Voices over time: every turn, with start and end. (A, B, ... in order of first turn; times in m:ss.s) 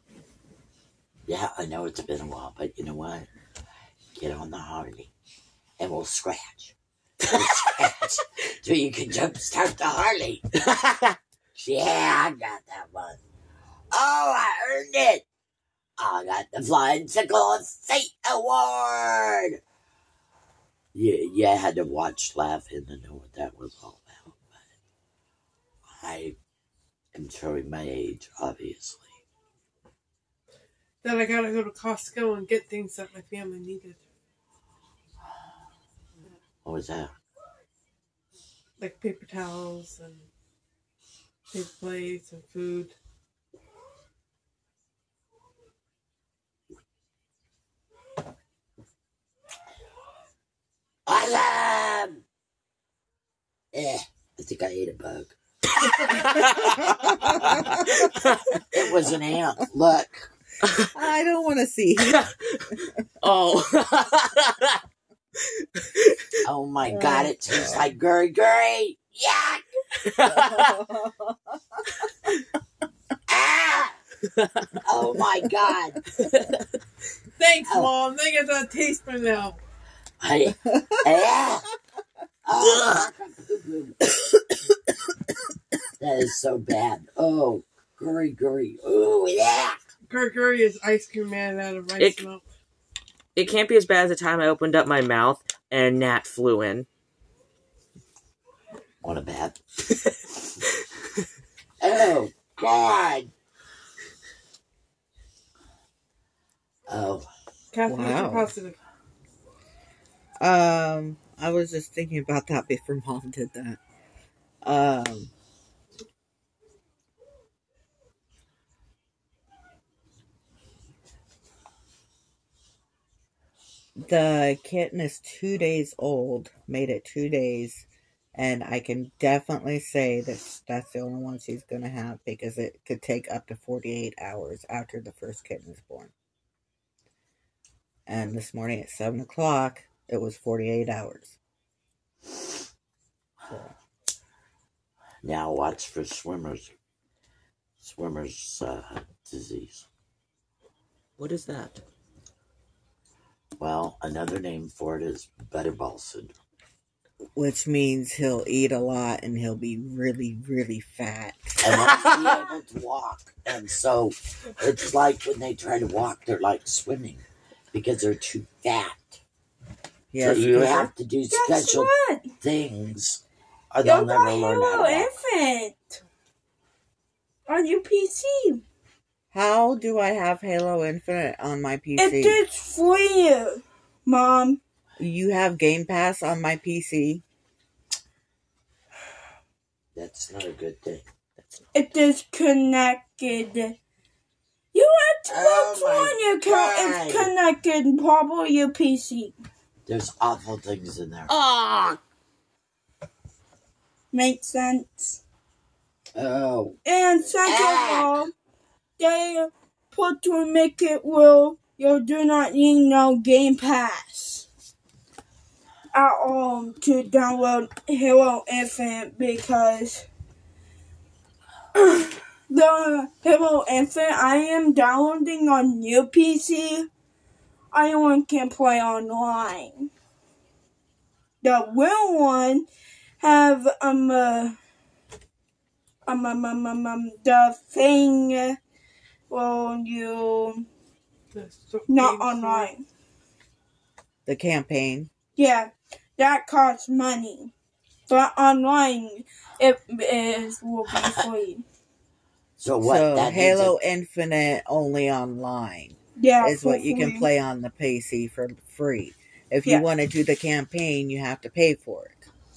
0:01.3-0:03.3 A
0:04.1-0:05.1 A
0:05.8-0:10.5 A
0:07.2-0:07.7 B
0:10.7-0:11.2 B
0:11.5-0:13.2 A
0:13.9-0:15.2 A
0:16.0-0:19.6 A
0:20.9-0:24.6 A
0:25.9-0:26.4 A
0:27.1-0:29.2 A
0:31.0-0:34.0 C
0:36.6-0:37.1 A
0:38.8-0:40.3 C
0:41.5-0:42.9 C
0:51.1-0:52.2 A
0:53.7-0:55.3 A
0:55.8-0:58.4 B
0:56.8-0:57.9 D
0:57.2-0:57.7 A
0:58.7-1:00.3 A
1:00.6-1:00.9 B
1:00.9-1:02.3 D
1:02.0-1:02.6 B
1:03.2-1:04.8 B
1:05.6-1:06.2 B
1:06.4-1:09.6 A
1:06.8-1:07.8 D
1:10.0-1:10.8 B
1:10.2-1:11.8 D
1:13.3-1:14.0 A
1:14.3-1:14.8 B
1:14.8-1:16.0 A
1:16.2-1:16.6 B
1:17.4-1:19.6 C
1:20.2-1:21.6 A
1:22.4-1:24.0 A
1:22.6-1:23.0 B
1:26.0-1:29.8 A
1:30.1-1:32.4 C
1:32.0-1:32.2 B
1:33.3-1:36.9 B
1:39.0-1:39.6 A
1:41.8-1:43.3 A
1:46.9-1:47.3 A
1:47.7-1:48.8 C
1:47.8-1:48.5 D
1:50.4-1:53.8 D
1:54.6-1:55.3 D
2:04.0-2:16.1 D
2:18.1-2:21.4 D
2:23.5-2:23.7 D
2:25.2-2:26.7 A
2:27.8-2:29.9 A
2:31.2-2:31.8 B
2:33.6-2:36.3 A
2:37.4-2:41.6 D
2:41.6-2:49.2 A
2:41.9-2:42.2 B
2:50.1-2:50.9 D
2:50.2-2:55.1 A
2:51.3-2:52.3 E
2:53.8-2:56.0 E
2:57.5-2:58.6 E
2:59.3-3:02.4 D
3:02.0-3:04.6 E
3:05.0-3:07.2 D
3:10.0-3:11.0 A
3:11.4-3:11.6 B
3:11.7-3:13.8 E
3:14.7-3:19.4 E
3:15.3-3:17.3 A
3:19.9-3:21.3 A
3:21.3-3:22.0 B
3:24.1-3:25.2 E
3:26.1-3:26.8 A
3:26.8-3:28.3 E
3:27.4-3:28.3 A
3:29.0-3:34.5 E
3:35.9-3:40.0 E
3:41.7-3:46.9 E
3:47.7-3:49.9 E
3:51.4-3:52.7 E
3:53.2-3:54.6 E
3:56.0-3:58.6 E
3:59.3-4:00.6 E
4:01.3-4:02.7 C
4:01.9-4:02.8 E
4:04.2-4:05.1 D
4:05.4-4:07.5 E
4:08.1-4:11.6 E
4:11.0-4:11.3 A
4:12.6-4:13.7 A
4:12.8-4:22.3 D
4:16.2-4:17.3 E